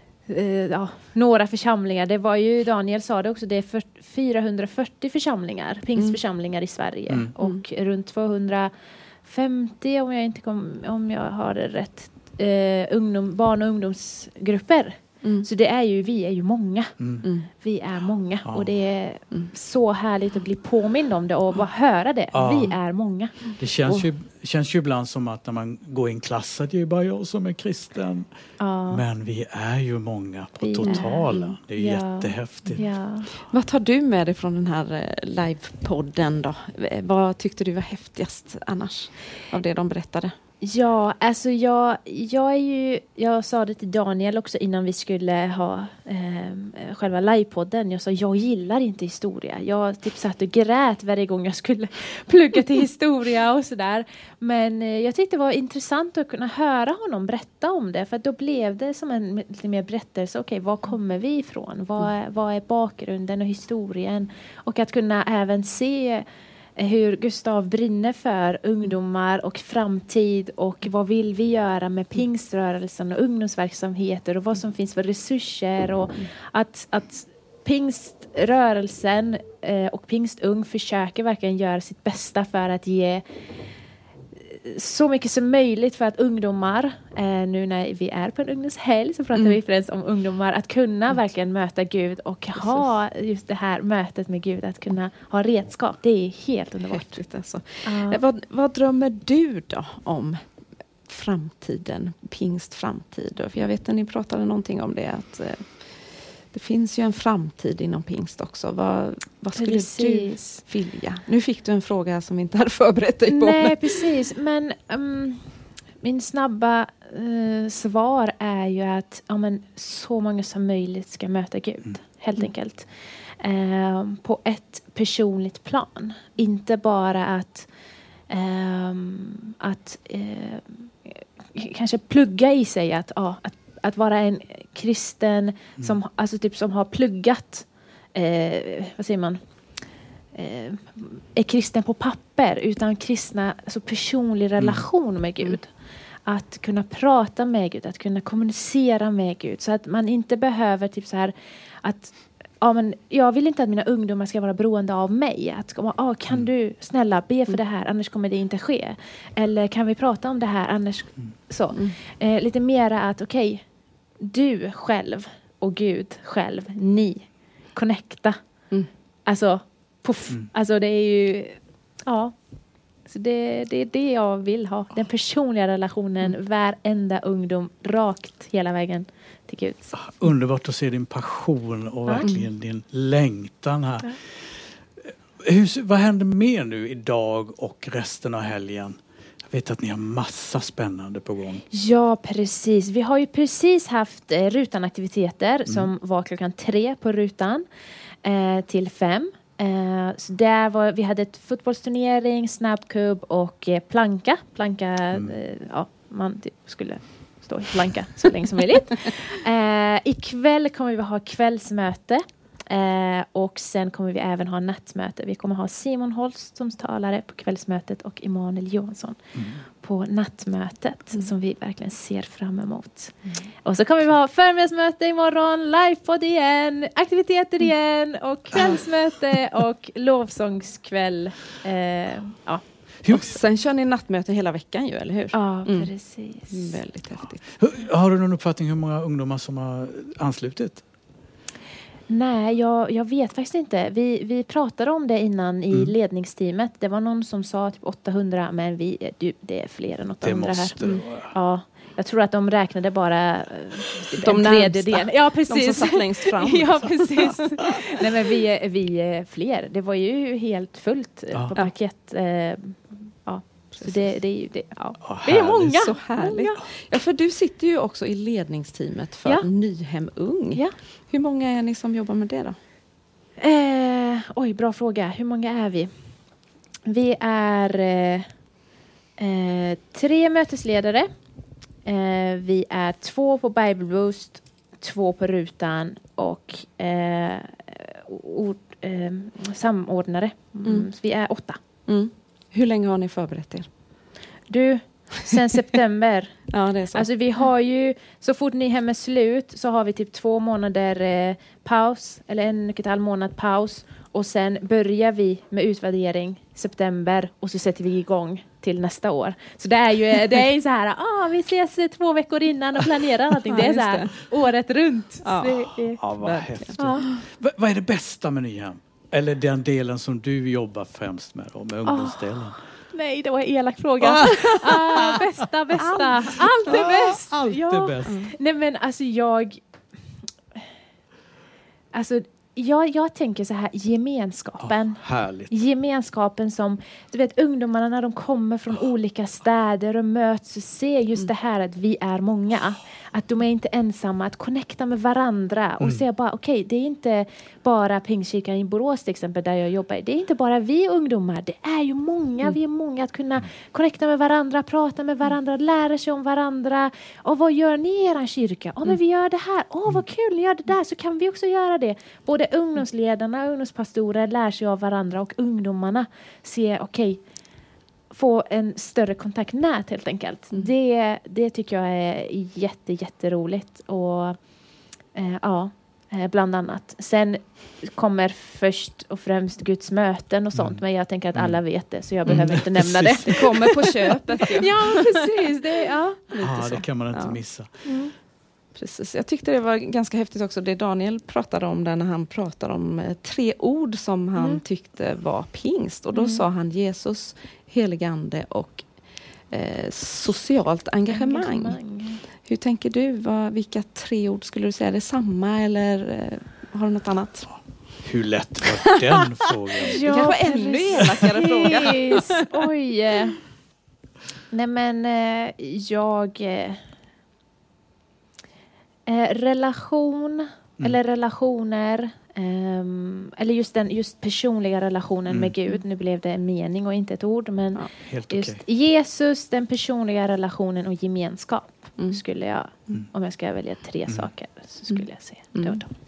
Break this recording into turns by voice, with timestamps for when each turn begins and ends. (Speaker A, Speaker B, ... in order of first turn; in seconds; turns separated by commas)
Speaker A: 0.3-8.7, Speaker A: 9.2-17.0, Speaker B: 17.0-17.2, Speaker C: 17.2-17.5, Speaker A: 17.6-23.4, Speaker B: 18.4-18.7, Speaker B: 22.3-22.8, Speaker B: 23.6-28.3, Speaker A: 28.6-29.0, Speaker B: 28.9-32.9, Speaker A: 30.6-33.3, Speaker C: 30.8-31.5, Speaker C: 33.4-40.3, Speaker A: 40.6-66.2, Speaker A: 66.8-83.2, Speaker A: 84.3-97.2, Speaker C: 92.6-92.9, Speaker C: 96.9-114.0, Speaker A: 97.8-98.2, Speaker A: 109.5-110.6, Speaker A: 113.3-127.7, Speaker A: 128.3-139.4, Speaker A: 140.3-145.7, Speaker B: 144.6-144.9, Speaker A: 146.2-163.6, Speaker A: 164.2-168.4, Speaker A: 169.2-172.3, Speaker A: 173.0-180.0, Speaker B: 179.9-184.2, Speaker C: 182.2-182.5, Speaker B: 185.4-191.6, Speaker A: 191.7-197.6, Speaker A: 198.2-219.2, Speaker B: 219.3-219.6, Speaker A: 219.8-232.6, Speaker C: 233.1-235.9, Speaker A: 235.3-236.8, Speaker C: 236.5-237.4, Speaker B: 237.6-240.8, Speaker A: 242.1-266.6, Speaker B: 250.2-251.3, Speaker C: 254.2-257.4, Speaker C: 263.7-264.1, Speaker B: 265.0-265.9, Speaker C: 265.7-272.6, Speaker A: 273.4-275.9, Speaker A: 276.9-278.3, Speaker A: 279.2-281.1, Speaker A: 281.8-291.6, Speaker C: 290.6-290.9, Speaker C: 291.9-293.7, Speaker A: 294.5-316.1, Speaker C: 296.5-297.1, Speaker C: 313.5-314.2, Speaker C: 315.2-317.2, Speaker B: 316.0-322.6, Speaker A: 316.8-317.0, Speaker A: 321.8-329.6, Speaker C: 324.2-324.6, Speaker B: 324.7-325.2, Speaker C: 325.8-326.4, Speaker B: 326.6-328.2, Speaker A: 331.9-367.2, Speaker B: 334.6-335.5, Speaker A: 368.1-374.4, Speaker A: 375.1-386.3, Speaker B: 380.5-383.8, Speaker C: 382.2-382.6, Speaker C: 383.2-385.1, Speaker C: 386.3-387.4, Speaker B: 386.4-387.8, Speaker A: 387.8-388.1, Speaker C: 388.7-398.9, Speaker A: 394.4-394.6, Speaker A: 396.1-396.4, Speaker C: 399.5-401.8, Speaker A: 401.1-402.2, Speaker C: 402.4-407.5, Speaker B: 408.0-410.4, Speaker A: 409.8-413.4, Speaker C: 410.0-412.3, Speaker A: 414.5-416.8, Speaker A: 419.1-435.9, Speaker B: 425.3-425.5, Speaker B: 428.0-428.6, Speaker C: 434.9-435.8